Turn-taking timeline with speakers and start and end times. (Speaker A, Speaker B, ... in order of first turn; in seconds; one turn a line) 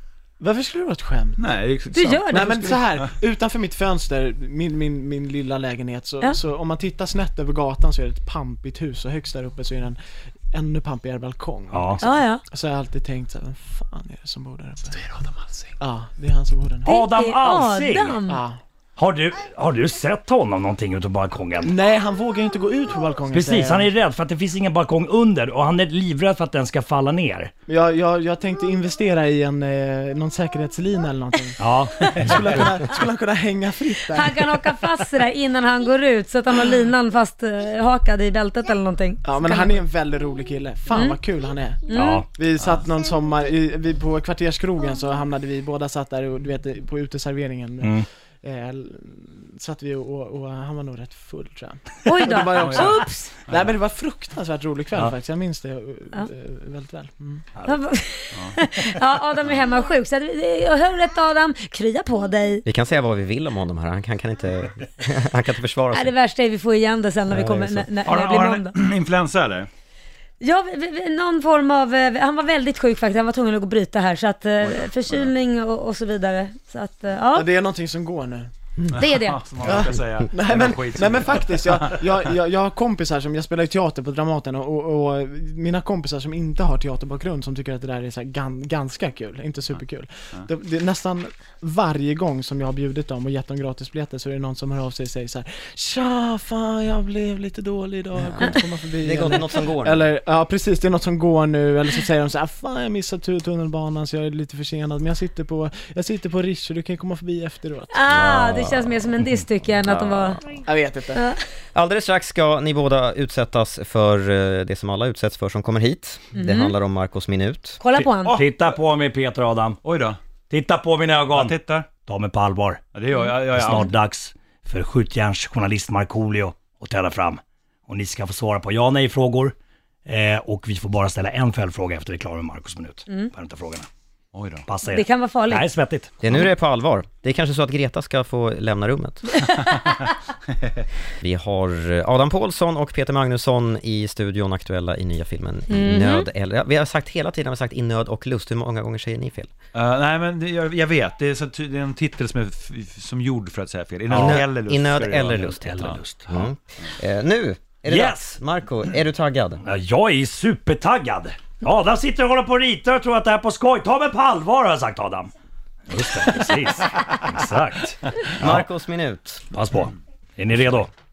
Speaker A: 0.4-1.4
Speaker B: 1.4-3.1
Speaker C: 1.9-2.8
Speaker A: 2.3-10.0
Speaker A: 10.5-15.0
Speaker D: 11.7-12.0
Speaker C: 12.0-12.4
Speaker B: 14.9-15.7
Speaker A: 15.8-16.9
Speaker D: 16.9-18.2
Speaker C: 16.9-18.4
Speaker A: 18.2-18.6
Speaker D: 19.0-21.7
Speaker A: 21.6-23.9
Speaker D: 23.3-27.5
Speaker A: 27.7-34.5
Speaker D: 31.6-32.1
Speaker C: 34.1-39.8
Speaker A: 39.2-41.8
Speaker C: 40.9-41.2
Speaker C: 41.9-42.2
Speaker D: 41.9-42.3
Speaker A: 42.3-57.5
Speaker D: 47.8-48.0
Speaker C: 52.0-53.3
Speaker B: 52.5-53.7
Speaker C: 57.6-62.6
Speaker E: 62.6-66.1
Speaker C: 65.9-68.7
Speaker B: 68.0-69.7
Speaker C: 70.4-77.5
Speaker B: 74.6-75.3
Speaker A: 77.3-78.9
Speaker B: 78.9-82.0
Speaker C: 79.0-79.4
Speaker A: 79.6-108.0
Speaker E: 98.2-100.0
Speaker C: 107.9-110.4
Speaker B: 109.8-110.4
Speaker A: 110.6-111.2
Speaker E: 111.7-117.8
Speaker C: 116.3-116.8
Speaker C: 117.8-118.4
Speaker D: 118.0-119.8
Speaker B: 118.2-118.7
Speaker B: 119.8-120.2
Speaker D: 120.5-122.8
Speaker B: 121.3-121.9
Speaker B: 122.9-123.9
Speaker D: 123.5-129.5
Speaker D: 130.1-133.9
Speaker B: 134.3-134.6
Speaker D: 134.7-136.1
Speaker C: 134.8-135.7
Speaker E: 136.2-139.4
Speaker E: 141.2-149.5
Speaker C: 145.7-146.3
Speaker B: 149.7-156.0
Speaker D: 154.1-154.4
Speaker E: 154.1-159.6
Speaker D: 155.4-156.4
Speaker D: 157.9-158.3
Speaker D: 159.6-165.3
Speaker D: 165.9-168.6
Speaker E: 168.4-169.4
Speaker D: 169.5-170.9